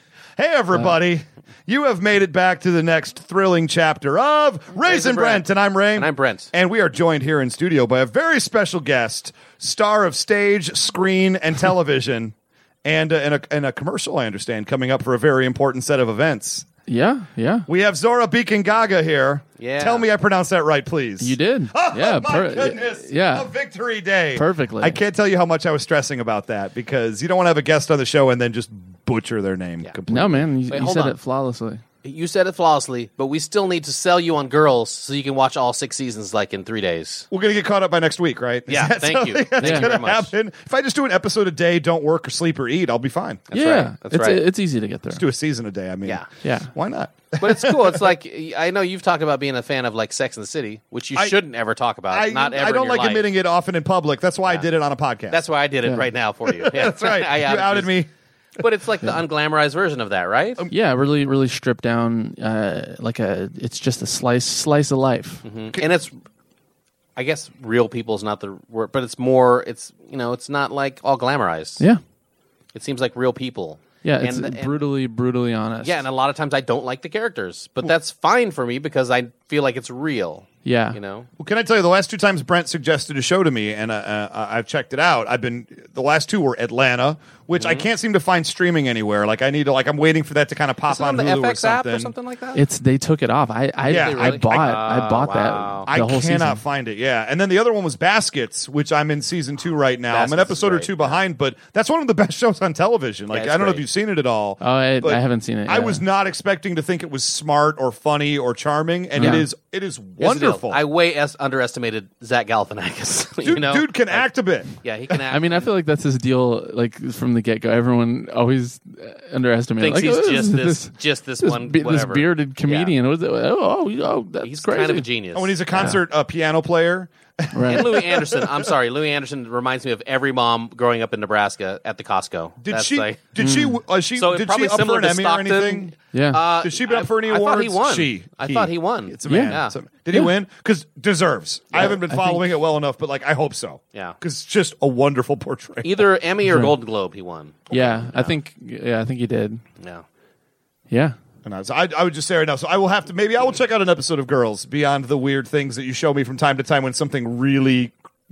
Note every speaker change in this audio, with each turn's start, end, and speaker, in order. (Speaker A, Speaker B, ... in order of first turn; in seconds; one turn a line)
Speaker A: 0.4-12.3
Speaker B: 4.8-6.5
Speaker A: 12.8-16.7
Speaker C: 16.9-17.7
Speaker A: 17.7-30.4
Speaker B: 19.6-20.1
Speaker C: 21.2-23.5
Speaker C: 24.3-25.0
Speaker C: 30.1-31.8
Speaker B: 30.7-31.1
Speaker B: 32.0-37.3
Speaker A: 37.3-43.5
Speaker B: 38.7-40.3
Speaker C: 39.6-39.9
Speaker B: 43.5-44.4
Speaker C: 43.5-45.2
Speaker A: 45.1-48.1
Speaker C: 46.4-46.7
Speaker B: 47.4-53.3
Speaker A: 52.1-55.4
Speaker B: 55.3-58.0
Speaker A: 56.4-58.1
Speaker B: 58.6-60.6
Speaker C: 60.7-65.4
Speaker B: 65.4-66.1
Speaker B: 67.2-71.8
Speaker B: 72.7-74.7
Speaker C: 74.0-76.0
Speaker B: 75.8-81.3
Speaker C: 80.6-81.0
Speaker A: 81.4-92.1
Speaker B: 87.6-87.8
Speaker B: 90.9-92.6
Speaker C: 92.5-96.6
Speaker A: 93.9-94.8
Speaker B: 93.9-95.9
Speaker A: 95.9-110.8
Speaker B: 100.1-101.2
Speaker B: 103.3-103.8
Speaker C: 104.6-106.0
Speaker C: 109.2-109.5
Speaker B: 110.2-115.7
Speaker A: 113.4-114.7
Speaker C: 115.3-125.0
Speaker B: 119.8-122.9
Speaker B: 124.4-125.6
Speaker A: 125.3-128.7
Speaker C: 125.7-126.0
Speaker C: 127.5-127.9
Speaker B: 127.7-133.2
Speaker A: 132.6-135.9
Speaker C: 133.4-133.8
Speaker B: 134.2-139.7
Speaker C: 136.1-136.4
Speaker A: 136.6-146.1
Speaker C: 139.2-139.6
Speaker C: 141.8-142.5
Speaker B: 145.8-148.3
Speaker C: 146.4-146.7
Speaker C: 147.7-149.6
Speaker C: 150.9-151.1
Speaker A: 151.4-157.9